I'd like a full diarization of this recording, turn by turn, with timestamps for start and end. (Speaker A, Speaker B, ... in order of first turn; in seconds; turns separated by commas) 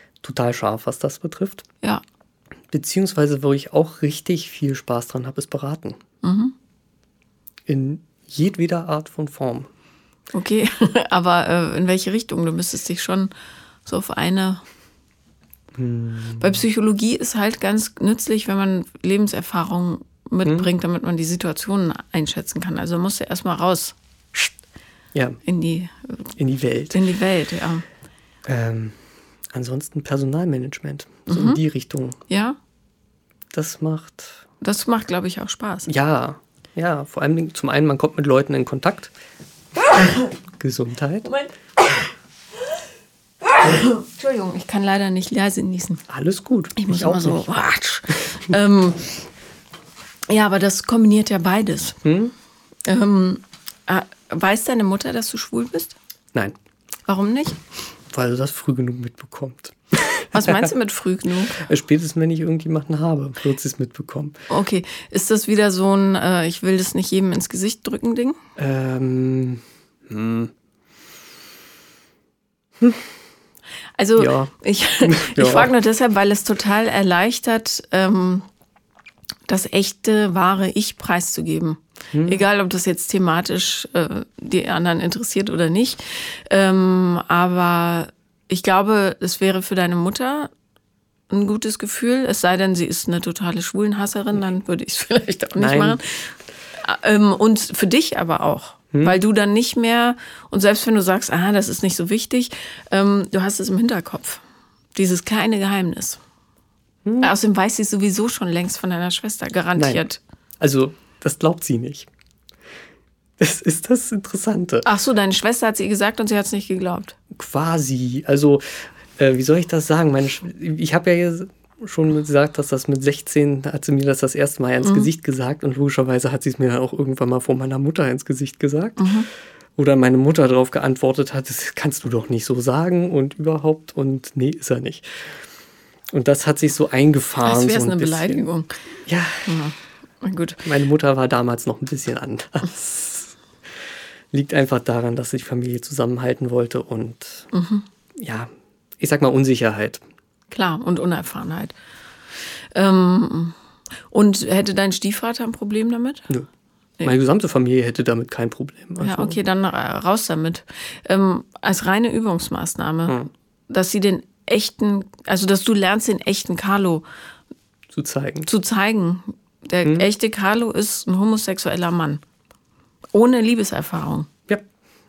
Speaker A: 0.2-1.6, Speaker A: 2.7-6.0, Speaker B: 6.2-6.5, Speaker A: 7.7-9.7, Speaker B: 10.3-13.3, Speaker B: 13.9-14.6, Speaker A: 15.7-16.6, Speaker B: 16.4-24.5, Speaker A: 25.1-25.4, Speaker B: 25.4-26.3, Speaker A: 26.4-27.0, Speaker B: 26.9-27.9, Speaker A: 28.4-29.0, Speaker A: 29.5-32.2, Speaker B: 31.3-31.6, Speaker B: 32.3-32.6, Speaker A: 33.5-34.4, Speaker B: 34.6-35.9, Speaker A: 35.9-39.1, Speaker A: 40.6-41.3, Speaker B: 41.3-42.0, Speaker B: 43.5-46.0, Speaker A: 46.1-47.5, Speaker B: 46.8-49.3, Speaker B: 50.3-52.0, Speaker A: 52.0-52.3, Speaker B: 52.9-56.0, Speaker B: 57.1-57.6, Speaker A: 58.1-60.7, Speaker B: 60.3-61.6, Speaker A: 61.5-64.4, Speaker B: 64.5-68.4, Speaker A: 68.6-70.5, Speaker B: 74.0-78.5, Speaker A: 74.2-75.7, Speaker B: 79.5-90.5, Speaker A: 82.1-82.4, Speaker B: 91.3-104.4, Speaker A: 95.6-96.0, Speaker A: 98.9-99.2, Speaker B: 105.0-106.2, Speaker A: 107.0-107.3, Speaker B: 107.2-110.2, Speaker A: 109.8-110.0, Speaker A: 110.6-112.1, Speaker A: 113.4-114.9, Speaker B: 114.8-117.2, Speaker A: 117.3-129.1, Speaker B: 124.8-125.1, Speaker B: 129.0-129.3, Speaker A: 129.8-135.4, Speaker A: 136.1-138.5, Speaker B: 137.4-138.7, Speaker A: 139.1-139.6, Speaker B: 139.5-140.7, Speaker A: 140.6-143.4, Speaker A: 144.3-147.5, Speaker B: 147.5-147.8, Speaker A: 148.2-150.0, Speaker B: 150.5-151.7, Speaker B: 152.7-153.6, Speaker B: 154.1-156.3, Speaker A: 157.0-159.4, Speaker B: 159.0-167.1, Speaker A: 167.9-168.5, Speaker B: 168.5-172.2, Speaker B: 173.1-174.3